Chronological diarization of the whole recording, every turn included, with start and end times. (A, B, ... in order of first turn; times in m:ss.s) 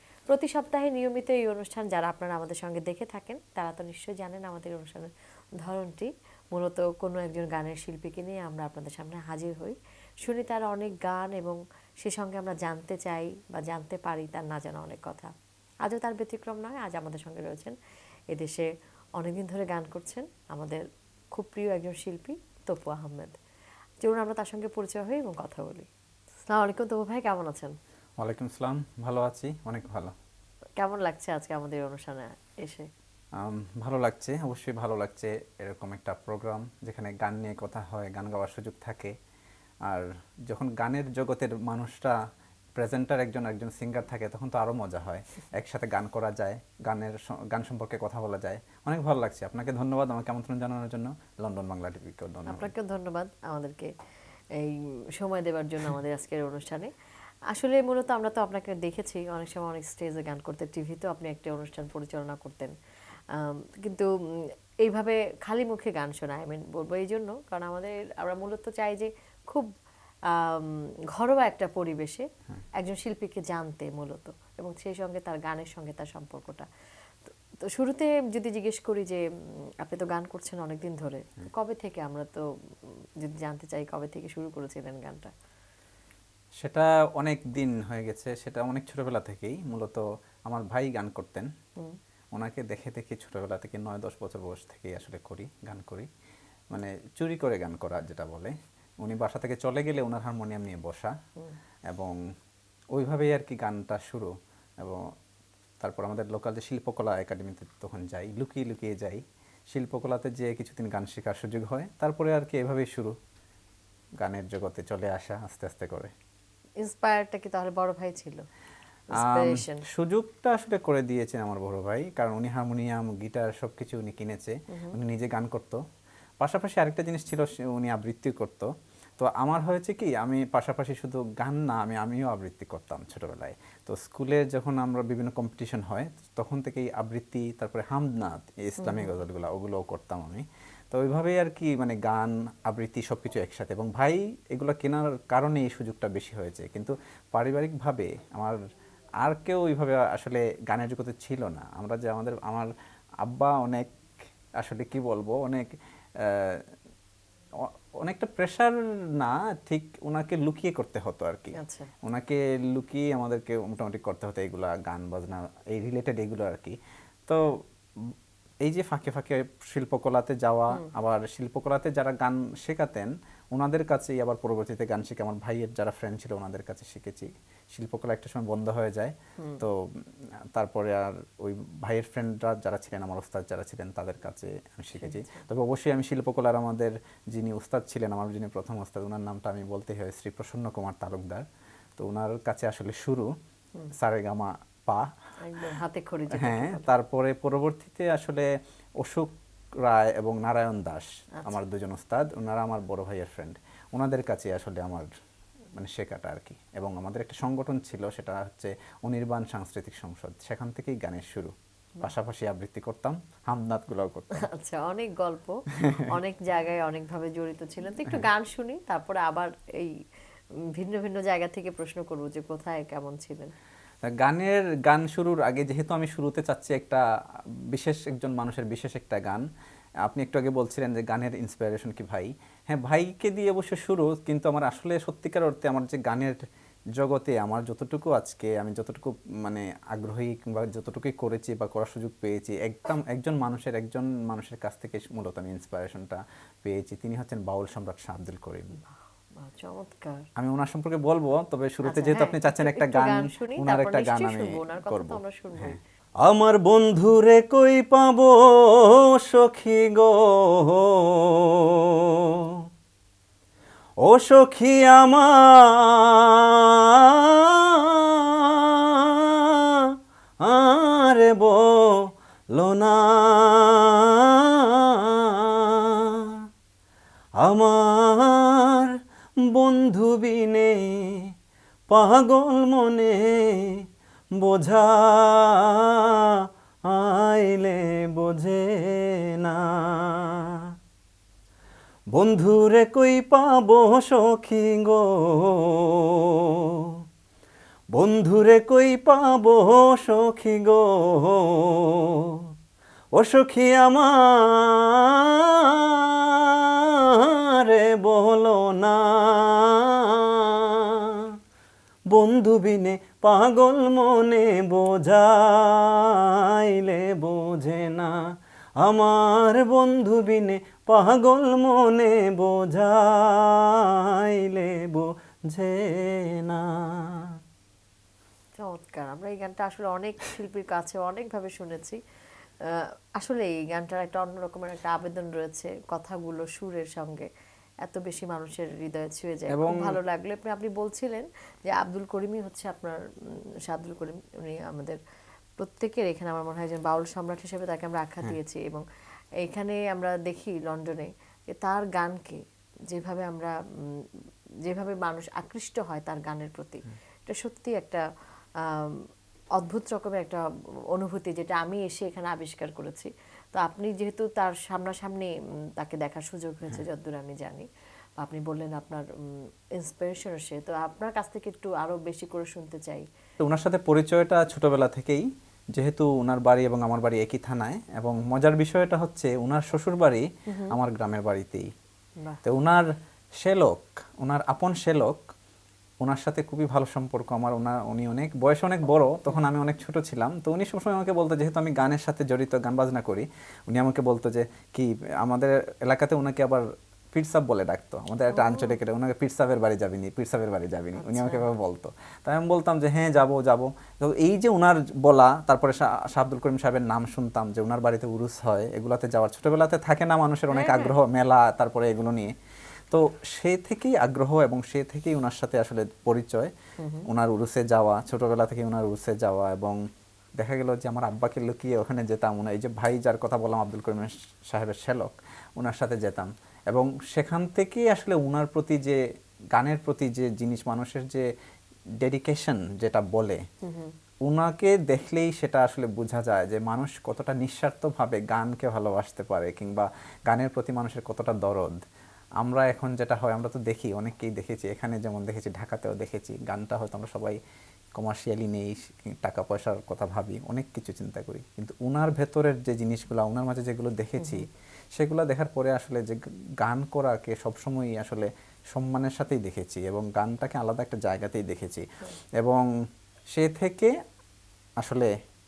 0:00.3-0:15.3 A
0:15.8-0:17.8 A
0:18.3-0:23.4 A
0:24.0-0:25.9 A
0:26.5-0:27.8 A
0:28.2-0:30.2 B
0:30.8-0:32.9 A
0:33.4-0:39.2 B
0:39.9-0:42.2 B
0:42.8-0:52.7 B
0:52.5-0:53.9 A
0:54.6-0:56.9 A
0:57.5-1:02.7 A
1:03.4-1:04.1 A
1:04.8-1:09.7 A
1:10.3-1:12.3 A
1:12.8-1:16.7 A
1:17.2-1:19.2 A
1:19.8-1:22.5 A
1:23.2-1:25.3 A
1:26.6-1:31.5 B
1:32.4-1:36.1 B
1:36.7-1:41.2 B
1:41.9-1:42.2 B
1:42.9-1:45.1 B
1:45.8-1:53.2 B
1:54.2-1:56.1 B
1:56.8-1:58.4 A
1:59.1-1:59.8 A
1:59.2-2:05.8 B
2:04.7-2:05.0 A
2:06.4-2:28.6 B
2:18.8-2:19.1 A
2:29.2-2:32.7 B
2:33.2-2:33.9 B
2:34.6-2:36.7 B
2:37.6-3:11.5 B
2:41.6-2:41.9 A
3:05.0-3:05.4 A
3:12.0-3:13.3 B
3:13.9-3:15.1 B
3:15.4-3:16.9 A
3:16.3-3:25.1 B
3:25.7-3:34.5 B
3:34.4-3:40.0 A
3:40.8-3:43.5 A
3:44.0-3:47.0 B
3:47.7-3:49.4 B
3:50.0-3:56.4 B
3:57.0-4:08.8 B
4:09.4-4:10.2 A
4:10.4-4:15.8 B
4:11.9-4:15.8 A
4:16.2-4:21.7 C
4:22.3-4:22.6 C
4:24.1-4:29.9 C
4:30.4-4:36.4 C
4:37.4-4:38.9 C
4:39.5-4:41.3 C
4:41.9-4:43.8 C
4:44.4-4:50.6 C
4:52.1-4:56.9 C
4:58.0-5:02.4 C
5:03.2-5:11.3 C
5:12.1-5:18.2 C
5:18.8-5:27.3 C
5:28.6-5:32.0 A
5:32.6-5:37.3 A
5:37.8-5:45.0 A
5:39.5-5:40.0 B
5:45.6-5:48.8 A
5:49.4-5:54.1 A
5:54.7-5:58.0 A
5:58.6-6:00.4 A
6:00.9-6:07.7 A
6:08.2-6:13.1 A
6:13.4-6:21.7 B
6:20.5-6:20.7 A
6:22.4-6:25.2 B
6:26.0-6:52.3 B
6:38.3-6:38.8 A
6:41.0-6:41.4 A
6:50.5-6:51.0 A
6:52.9-6:56.5 B
6:56.8-6:57.1 A
6:57.1-6:59.8 B
7:00.4-7:09.0 B
7:09.5-7:11.3 B
7:12.0-7:13.4 B
7:13.6-7:13.9 A
7:14.3-7:21.8 B
7:22.4-7:27.4 B
7:28.0-7:41.9 B
7:34.2-7:34.4 A
7:42.4-7:42.7 B
7:43.3-7:43.9 B
7:44.8-7:45.1 B